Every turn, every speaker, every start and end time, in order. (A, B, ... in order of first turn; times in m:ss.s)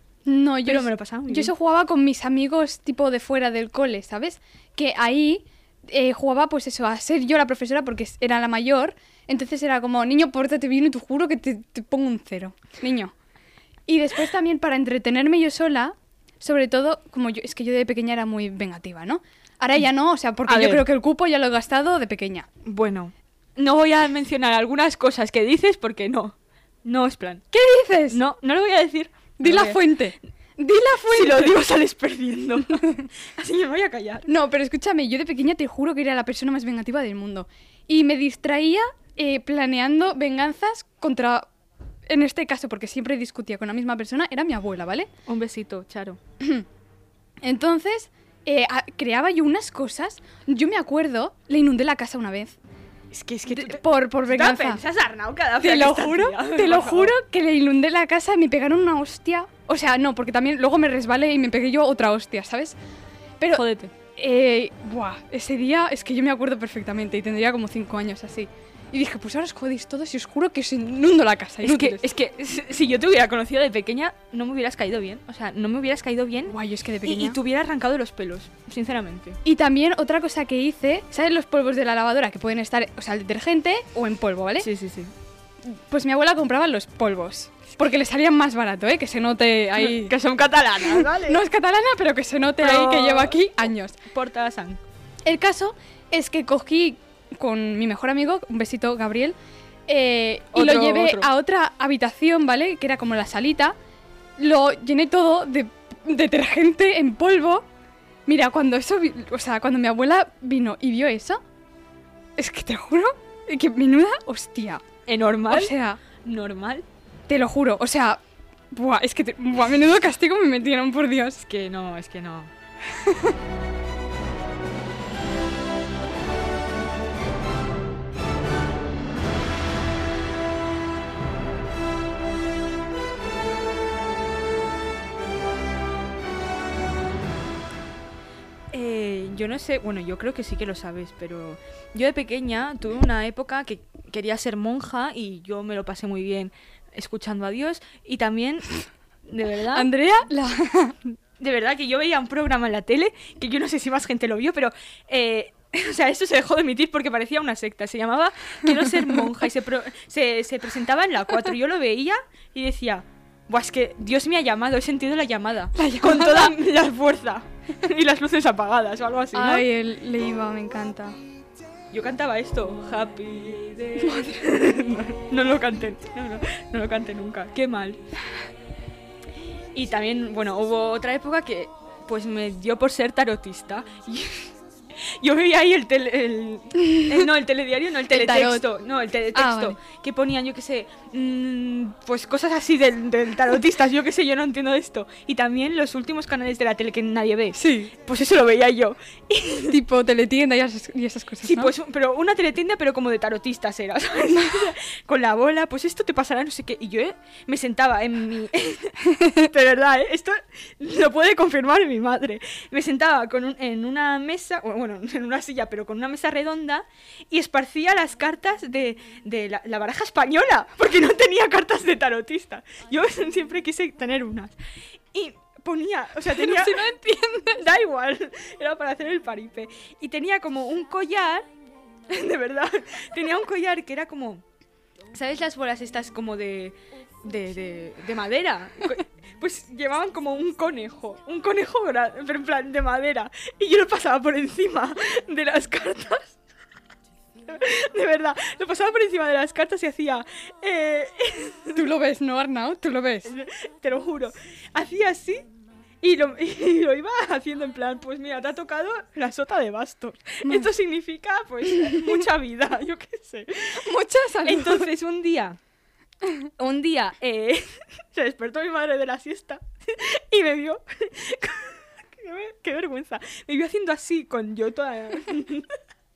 0:00.3-0:13.1 A
0:00.6-0:01.5 B
0:13.9-0:22.5 A
0:20.4-0:20.8 B
0:22.6-0:27.4 B
0:27.5-0:28.2 A
0:28.1-0:29.9 B
0:29.4-0:31.6 A
0:31.1-0:34.3 B
0:34.3-0:41.5 A
0:42.0-0:45.1 A
0:45.3-0:46.2 B
0:46.4-0:46.6 A
0:47.4-0:52.6 A
0:53.1-0:57.2 B
0:53.5-0:54.8 A
0:55.6-1:02.8 A
1:03.5-1:03.9 B
1:04.2-1:12.0 A
1:11.6-1:19.4 B
1:16.5-1:17.4 A
1:19.4-1:24.7 A
1:24.6-1:25.1 B
1:25.6-1:30.2 A
1:29.8-1:31.4 B
1:30.9-1:34.0 A
1:32.6-1:33.4 B
1:34.0-1:34.8 B
1:35.2-1:39.4 A
1:39.9-1:43.8 A
1:40.5-1:41.3 B
1:44.4-1:47.6 A
1:48.3-1:51.4 A
1:52.4-1:54.8 A
1:55.1-1:56.8 B
1:55.5-1:56.0 A
1:57.3-1:58.2 A
1:58.7-2:01.4 A
2:01.4-2:02.5 B
2:02.9-2:03.3 A
2:18.7-2:29.9 B
2:29.7-2:31.0 A
2:31.4-2:49.6 B
2:45.7-2:46.6 A
2:49.3-2:51.2 A
2:51.9-2:58.0 B
2:54.0-2:54.3 A
2:59.7-3:19.8 B
3:06.8-3:07.1 A
3:08.1-3:08.6 A
3:09.3-3:09.8 A
3:17.5-3:17.9 A
3:19.7-3:21.7 A
3:21.4-3:44.5 B
3:24.3-3:24.7 A
3:29.0-3:29.4 A
3:45.1-3:46.9 B
3:46.3-3:47.6 A
3:47.6-3:51.5 B
3:52.1-3:54.4 B
3:55.1-4:06.4 B
4:07.4-4:11.8 B
4:11.7-4:13.3 A
4:13.2-4:15.5 B
4:16.0-4:23.8 B
4:20.4-4:20.7 A
4:23.8-4:24.9 A
4:24.4-4:25.6 B
4:26.6-4:35.7 B